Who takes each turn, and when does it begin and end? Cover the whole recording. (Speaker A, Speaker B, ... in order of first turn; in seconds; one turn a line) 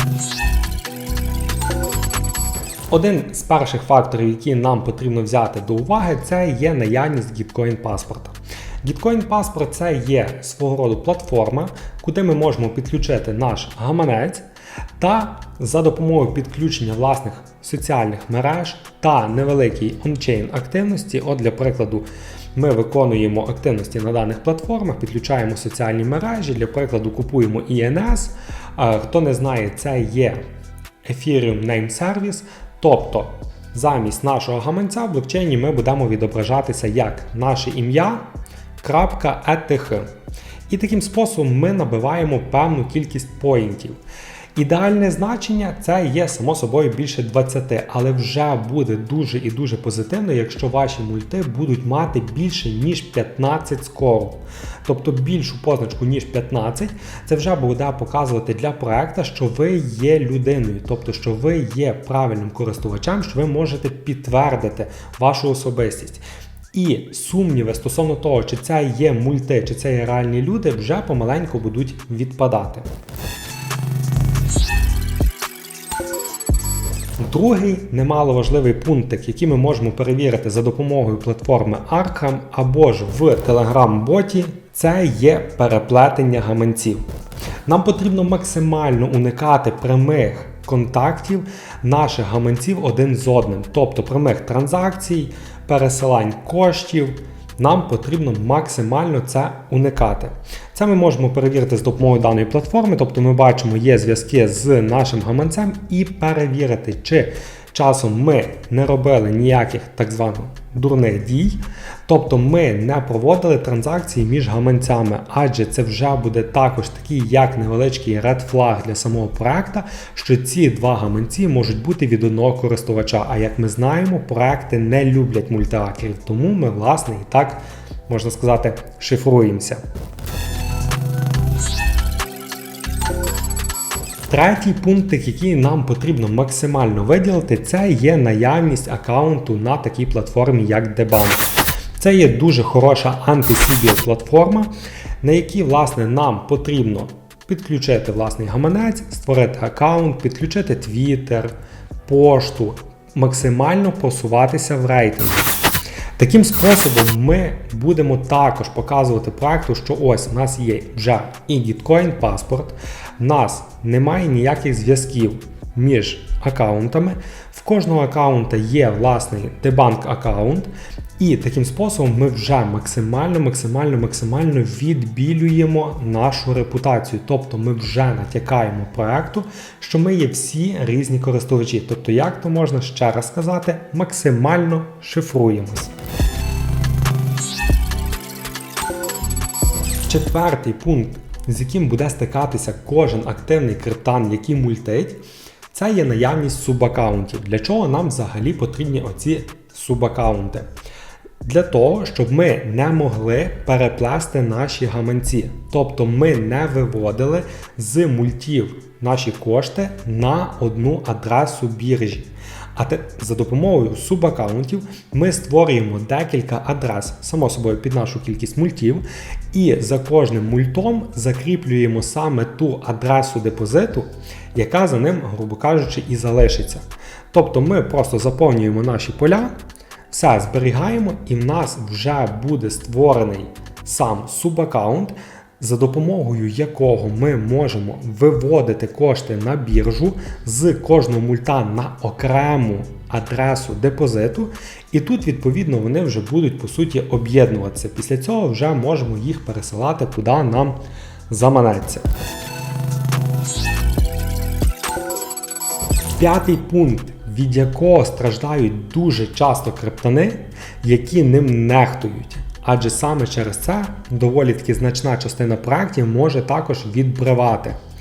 Speaker A: 2.9-14.4
Speaker A: 15.0-30.4
Speaker A: 31.0-38.2
Speaker A: 38.8-40.1
Speaker A: 40.7-44.0
Speaker A: 44.5-72.9
Speaker A: 77.2-87.0
Speaker A: 87.7-129.8
Speaker A: 134.3-144.7
Speaker A: 145.2-151.5
Speaker A: 152.1-155.5
Speaker A: 156.2-185.9
Speaker A: 190.1-200.7
Speaker A: 201.4-229.5
Speaker A: 230.1-250.8
Speaker A: 251.3-252.1
Speaker A: 256.2-267.8